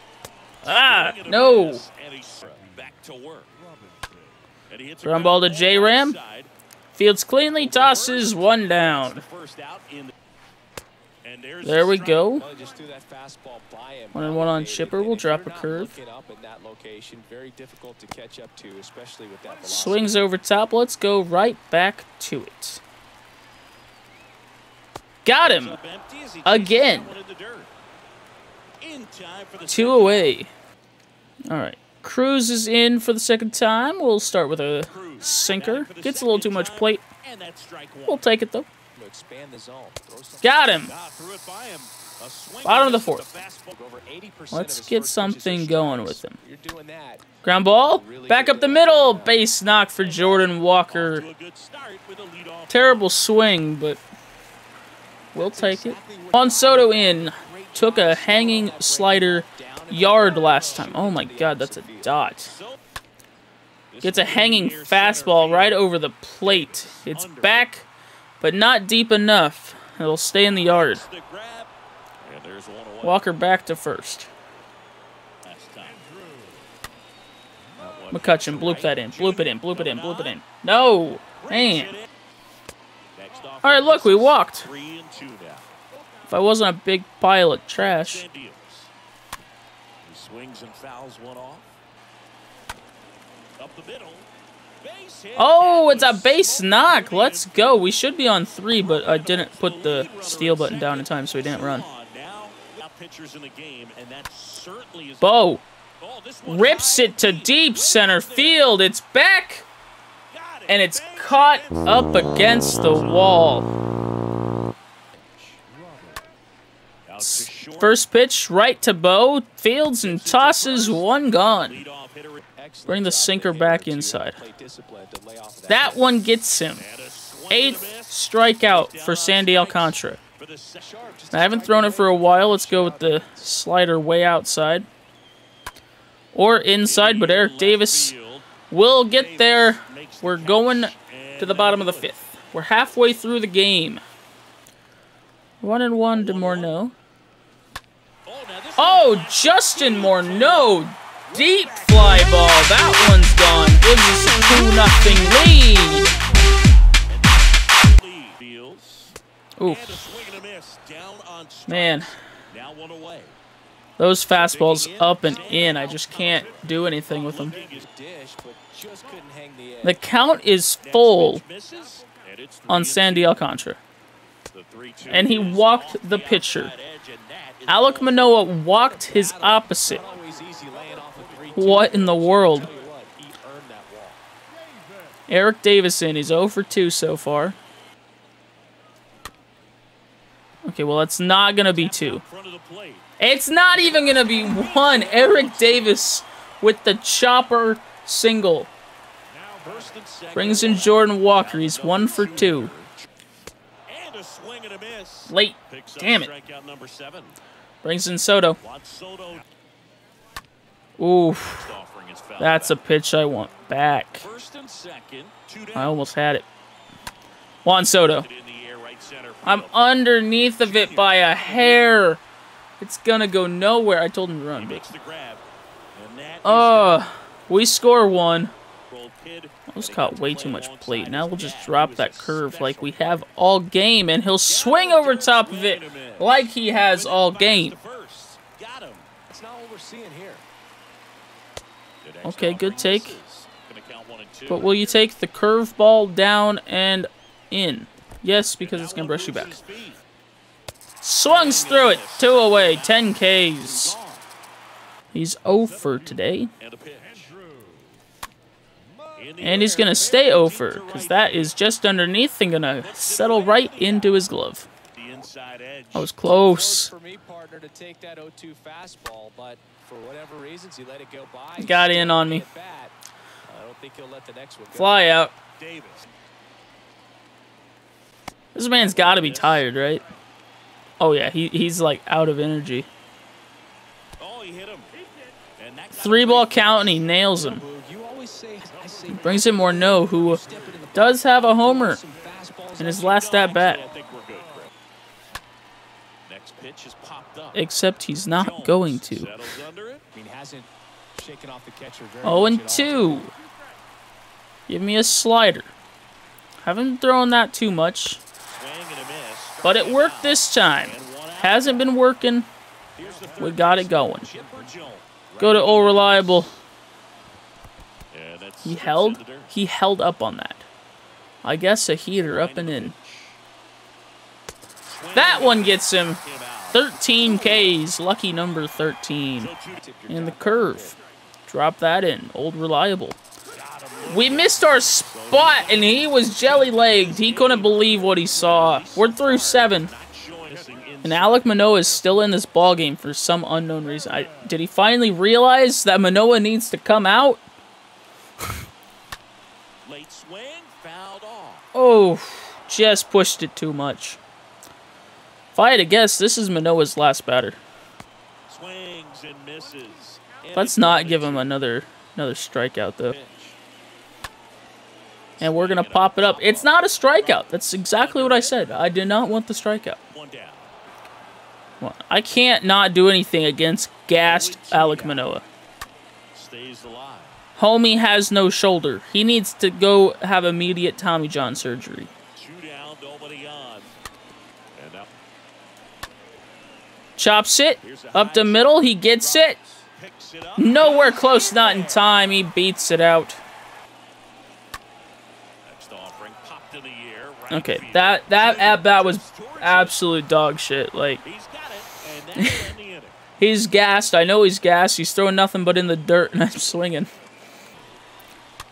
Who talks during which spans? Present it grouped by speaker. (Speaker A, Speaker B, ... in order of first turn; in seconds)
Speaker A: 0.6-1.8, 5.0-6.2, 6.9-9.2, 11.6-12.4, 14.1-16.0, 19.6-22.8, 25.2-25.8, 26.4-27.1, 29.6-30.5, 31.5-37.0, 38.1-38.7, 40.4-40.9, 42.6-43.4, 44.5-46.4, 47.4-51.3, 52.7-54.0, 55.3-62.5, 64.0-67.9, 68.4-71.0, 73.0-74.3, 78.1-82.0, 83.6-84.7, 86.3-88.2, 95.3-101.9, 105.2-105.6, 106.5-109.7, 110.7-113.7, 117.2-121.8, 122.8-124.4, 125.7-126.9, 127.5-130.2, 131.3-134.8, 136.3-138.1, 138.7-144.0, 145.6-146.9, 148.8-156.1, 159.6-160.1, 161.7-162.1, 164.0-167.6, 169.8-171.4, 172.7-173.8, 175.1-176.7, 177.7-180.0, 181.5-182.7, 185.3-187.6, 190.6-192.2, 193.2-198.7, 200.3-202.7, 205.3-206.3, 207.8-208.6, 211.0-211.7, 212.4-214.3, 215.7-216.4, 217.6-218.3, 219.4-222.2, 222.8-224.9, 226.4-228.5, 229.7-237.8, 242.2-243.2, 244.5-249.6, 251.0-253.9, 255.1-256.5, 259.4-264.7, 265.9-266.9, 271.6-272.4, 274.7-275.4, 278.5-280.0, 281.0-282.9, 285.9-287.6, 289.1-290.4, 290.9-292.0, 292.8-293.8, 297.5-299.3, 302.2-303.3, 304.7-305.7, 306.6-308.2, 309.6-312.5, 313.4-314.3, 315.4-316.5, 318.6-320.6, 321.4-322.9, 325.1-326.2, 326.7-329.5, 330.1-330.9, 331.5-333.2, 334.0-339.9, 341.0-347.4, 351.7-354.2, 355.5-357.6, 360.5-363.1, 365.4-370.0, 371.8-375.4, 377.6-382.1, 387.2-389.6, 390.6-393.4, 397.5-401.2, 402.3-402.7, 403.4-407.1
Speaker B: 0.6-3.5, 4.7-6.5, 7.5-10.1, 11.2-12.3, 25.4-27.7, 28.8-30.4, 34.9-38.3, 40.8-43.8, 50.9-53.1, 62.4-62.8, 63.9-65.8, 66.4-67.7, 70.6-71.7, 72.2-73.3, 75.4-76.4, 77.8-80.4, 81.4-82.1, 83.1-85.7, 87.8-88.9, 90.0-91.7, 93.6-94.3, 94.8-97.9, 98.8-105.4, 106.0-108.7, 110.3-113.5, 117.1-118.0, 120.0-122.4, 126.8-131.0, 136.8-138.5, 139.1-142.2, 146.1-146.7, 148.2-163.3, 164.3-167.8, 170.8-173.4, 174.5-178.6, 180.2-182.9, 191.7-193.1, 193.8-196.0, 199.4-203.0, 203.9-207.3, 208.6-209.4, 211.5-212.8, 214.2-216.0, 218.2-219.9, 220.6-221.8, 224.5-225.4, 225.9-227.1, 228.9-233.2, 234.4-239.1, 242.0-244.8, 248.6-250.0, 251.2-254.3, 255.7-257.5, 259.1-261.5, 262.8-264.1, 264.9-266.1, 275.6-276.1, 278.8-279.6, 284.2-284.9, 285.5-287.1, 288.9-289.4, 292.9-294.7, 296.2-297.6, 298.3-300.1, 308.6-311.9, 313.0-316.5, 318.1-319.6, 322.2-323.4, 324.9-327.8, 329.4-329.8, 333.5-341.7, 349.8-351.6, 358.5-361.6, 363.1-363.6, 365.4-368.7, 370.1-370.7, 374.2-375.3, 376.3-377.4, 382.3-383.9, 384.7-385.1, 387.8-392.1, 395.6-400.0, 401.2-403.2
Speaker C: 12.3-20.2, 39.0-40.6, 43.7-49.4, 55.4-62.2, 122.5-126.2, 130.8-133.4, 167.5-170.0, 178.9-184.2, 239.3-240.4, 266.2-272.9, 273.5-275.0, 287.4-293.1, 300.1-303.3, 313.0-314.7, 329.8-330.9